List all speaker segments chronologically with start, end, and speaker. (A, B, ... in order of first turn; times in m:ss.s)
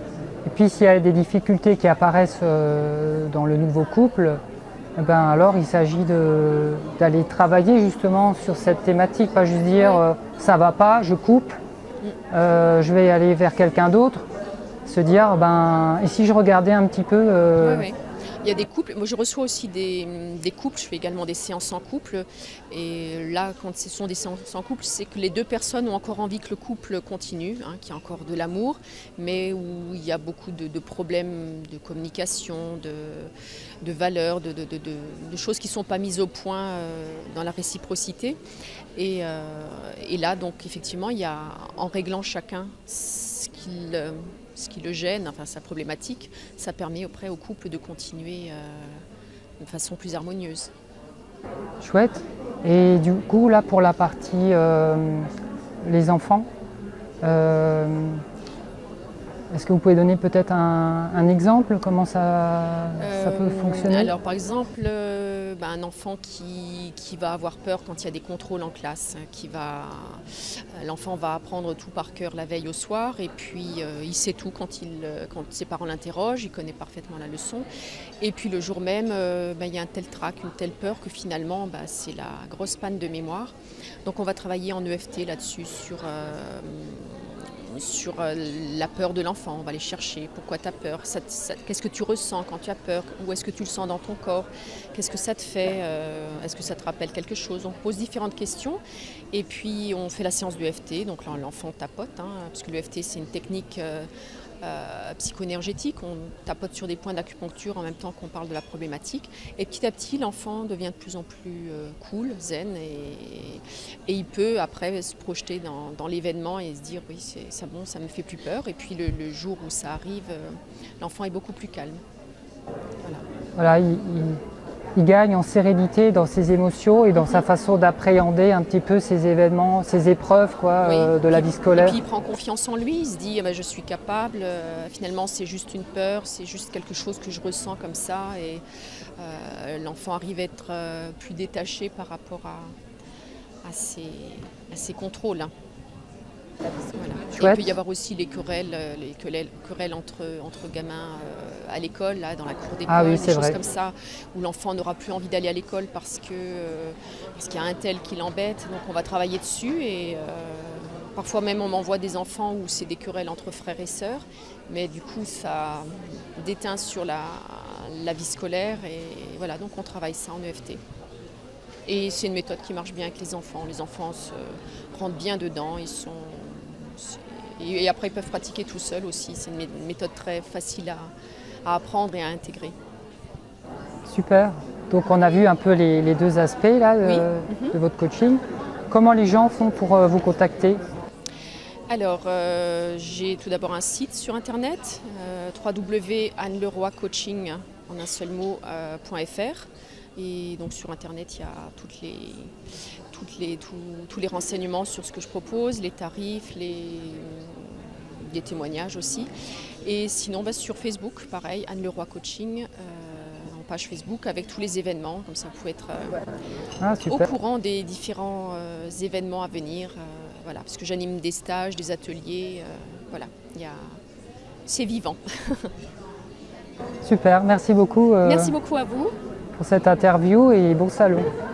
0:00.4-0:04.4 A
0:05.0-0:11.6 A
0:09.8-0:10.0 B
0:12.3-0:14.2 A
0:14.8-0:17.9 A
0:17.6-0:33.3 B
0:33.8-0:38.4 B
0:39.0-0:49.0 B
0:49.6-0:50.7 B
0:51.8-0:55.3 A
0:55.8-0:56.5 A
0:57.2-0:58.2 A
0:59.5-1:04.1 A
1:03.0-1:10.2 B
1:10.7-1:17.7 B
1:18.2-1:23.5 B
1:24.0-1:38.8 B
1:39.3-1:44.1 B
1:44.6-2:02.0 B
2:03.6-2:04.4 A
2:05.0-2:12.0 A
2:07.2-2:07.4 B
2:10.8-2:18.6 B
2:19.2-2:22.7 B
2:23.6-2:25.5 B
2:26.9-2:50.8 B
2:32.9-2:33.6 A
2:51.9-3:01.1 B
3:01.6-3:02.7 B
3:04.0-3:10.8 A
3:07.0-3:07.7 B
3:11.9-3:22.5 B
3:23.1-3:29.3 B
3:29.8-3:36.2 B
3:36.8-3:37.3 A
3:37.0-3:44.0 B
3:44.6-3:45.7 B
3:47.0-3:48.5 A
3:48.2-3:49.1 B
3:49.6-3:51.3 A